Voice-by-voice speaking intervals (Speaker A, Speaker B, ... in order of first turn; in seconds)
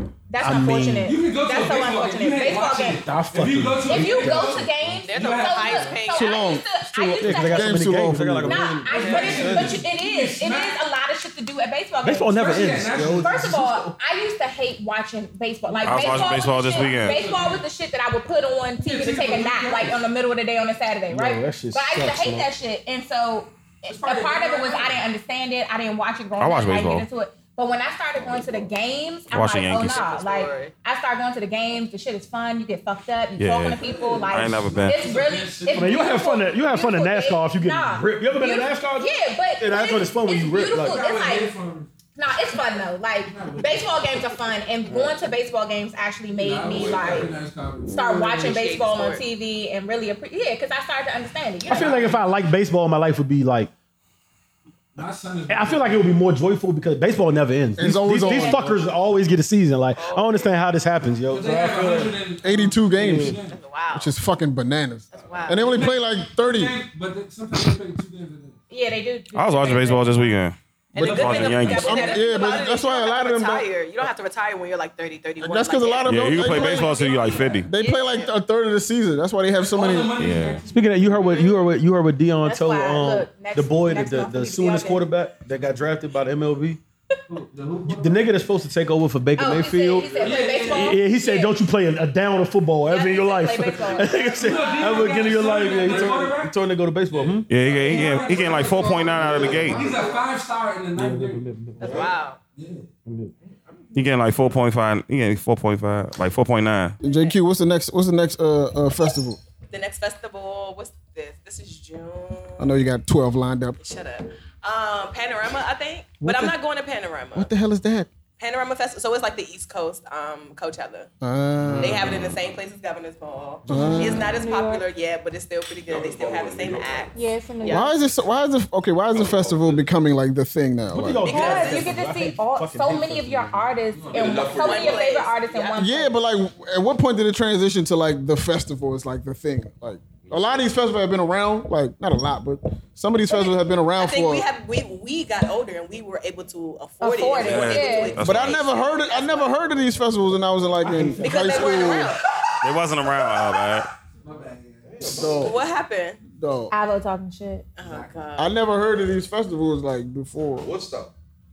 Speaker A: 0.3-3.0, 3.9-7.9, 8.4-41.5, 42.1-47.3, 47.9-52.0, 58.3-58.6, 68.7-70.4, 71.0-72.6, 76.9-77.4, 82.4-85.1, 89.4-91.6, 92.9-95.5, 123.8-124.8, 127.1-128.0, 131.3-136.2, 147.0-148.2, 156.7-157.7
Speaker B: 0.4-1.1, 3.0-4.7, 6.9-9.8, 12.0-13.9, 21.1-22.5, 35.7-41.0, 51.7-53.7, 55.5-62.2, 63.0-63.4, 80.7-86.8, 87.9-97.5, 99.2-99.8, 101.0-102.1, 103.0-103.3, 123.7-124.0, 130.9-133.7, 150.8-151.9
Speaker C: 1.0-6.0, 8.9-10.8, 12.3-13.6, 15.8-17.6, 18.8-20.0, 23.9-25.0, 33.9-36.1, 40.7-41.9, 43.3-44.1, 46.4-48.4, 51.7-52.2, 55.0-56.1, 61.3-63.5, 65.6-68.6, 71.1-71.4, 79.6-81.5, 87.3-88.3, 90.1-91.0, 94.3-96.6, 97.1-101.5, 102.6-102.9, 133.9-134.7, 154.2-155.2
Speaker D: 5.0-6.5, 29.7-30.7, 47.9-49.2, 60.0-60.5, 63.5-64.1, 65.1-65.9, 70.9-78.3, 101.8-102.4, 109.7-112.9, 113.8-117.5, 118.4-121.1, 121.8-127.9, 131.2-131.9, 134.6-135.9, 143.3-149.6, 151.2-152.4, 155.4-156.2, 157.8-158.5
Speaker E: 6.1-6.6, 7.4-8.8, 57.8-58.8, 62.4-63.4, 63.9-66.8, 71.7-73.7, 75.4-80.2, 107.0-109.4, 112.6-113.8, 116.2-116.6, 117.3-118.1, 121.2-122.2, 123.7-124.3, 127.7-131.3, 135.8-144.5, 148.2-152.2, 155.0-155.6, 156.4-156.7, 158.4-160.7
Speaker F: 15.8-17.2, 26.4-27.1, 29.3-30.0, 33.4-35.1, 69.3-72.1, 76.0-77.7, 80.2-80.6, 97.5-99.8, 103.9-107.0, 147.3-148.7, 152.6-153.9
Speaker G: 28.2-28.5, 46.7-47.4, 98.9-100.2, 125.9-127.1, 129.1-129.9, 134.1-135.3, 140.3-140.5, 154.9-155.6, 160.6-161.1